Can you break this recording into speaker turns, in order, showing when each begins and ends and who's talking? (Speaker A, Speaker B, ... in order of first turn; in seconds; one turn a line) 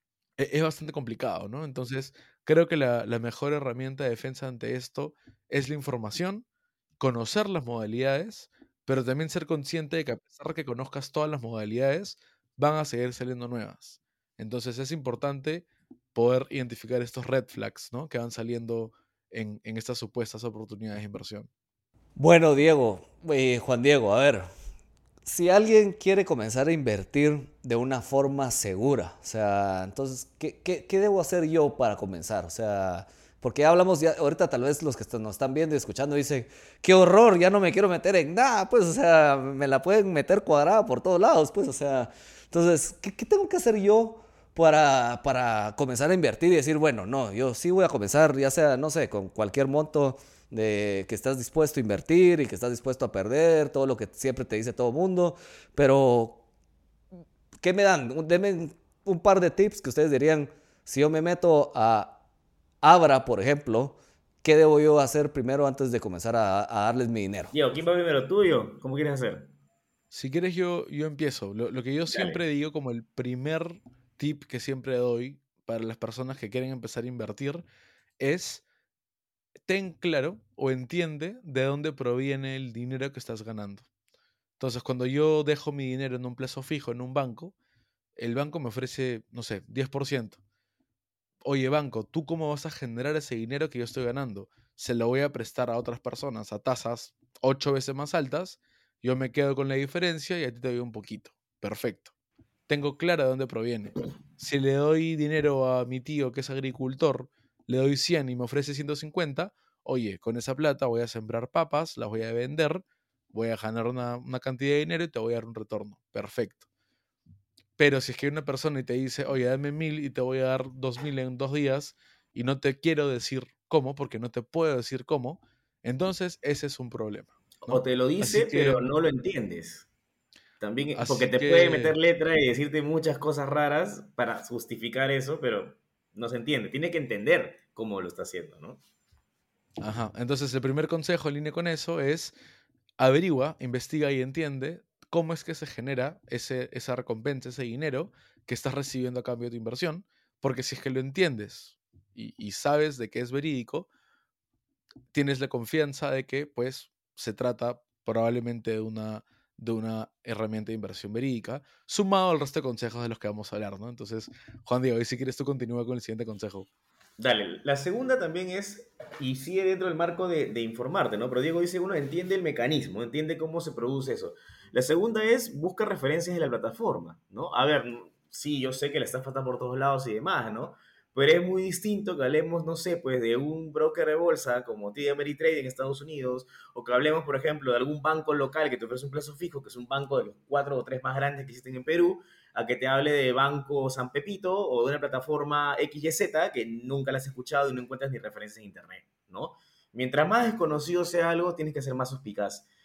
Speaker A: 0.4-6.4
Speaker A: 7.0-21.5
Speaker B: 22.1-24.5
Speaker B: 25.2-56.4
Speaker B: 57.6-62.2
Speaker B: 62.8-67.5
Speaker C: 67.5-69.5
Speaker A: 70.1-77.7
Speaker C: 72.1-72.4
Speaker A: 78.2-78.6
Speaker A: 79.6-83.8
Speaker A: 84.6-87.5
Speaker A: 88.2-90.4
Speaker A: 91.4-102.1
Speaker A: 102.7-116.6
Speaker A: 117.8-128.9
Speaker C: 127.6-129.9
Speaker C: 130.6-138.8
Speaker A: 130.9-131.9
Speaker A: 139.8-142.3
Speaker A: 143.0-153.9
Speaker A: 155.1-166.7
Speaker C: 167.2-202.7